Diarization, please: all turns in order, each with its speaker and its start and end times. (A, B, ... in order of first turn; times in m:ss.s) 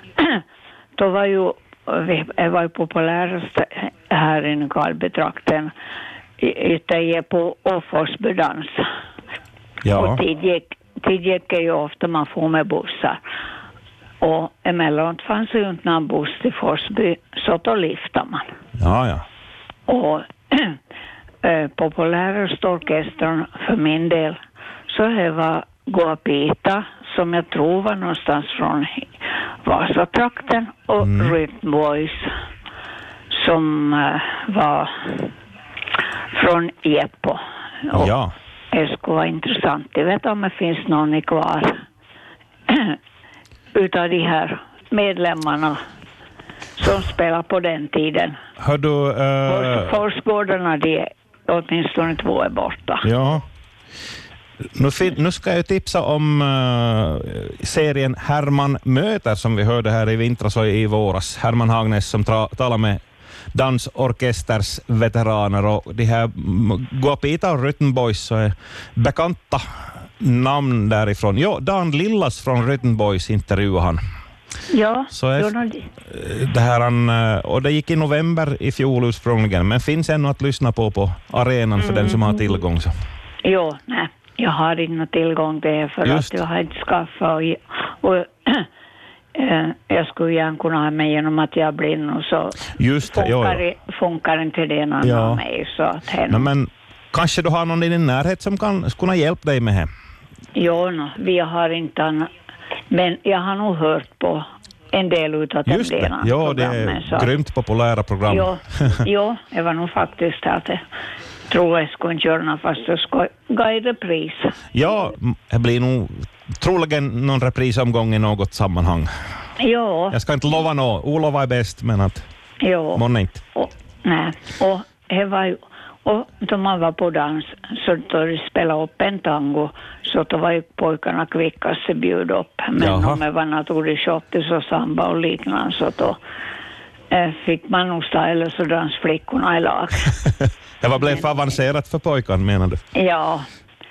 0:00.2-0:00.4 A
0:01.0-0:05.7 A
0:06.4-0:08.9 A
0:09.8-0:10.2 B
0:09.9-0:13.2 A
0:14.2-0:18.5 A
0:18.8-0:19.2 B
0:19.9-0:20.8 A
0:21.4-0:29.1 A
0:29.6-0:32.3 A
0:31.0-0:31.4 B
0:33.3-0:35.3 A
0:36.3-0:38.1 A
0:37.9-0:38.3 B
0:38.7-0:41.8 A
0:42.7-0:43.0 A
0:43.7-0:45.8 A
0:46.8-0:48.4 A
0:48.6-0:49.9 B
0:49.5-0:53.1 A
0:53.0-0:53.4 B
0:54.8-1:03.0 B
1:03.5-1:09.7 B
1:10.2-1:14.0 B
1:14.7-1:15.8 A
1:15.1-1:15.5 B
1:16.0-1:22.9 B
1:23.4-1:28.7 A
1:26.0-1:26.3 B
1:29.3-1:36.5 A
1:32.8-1:33.6 B
1:35.0-1:35.4 B
1:36.3-1:39.9 B
1:40.5-1:42.3 A
1:42.9-1:47.3 A
1:45.6-1:49.0 B
1:48.3-1:50.8 A
1:51.5-1:54.6 A
1:54.7-1:59.1 B
1:59.6-2:00.2 A
2:00.1-2:02.2 B
2:02.6-2:16.2 A
2:02.9-2:03.4 B
2:12.8-2:13.2 B
2:17.1-2:20.1 A
2:20.2-2:22.8 B
2:22.9-2:23.5 A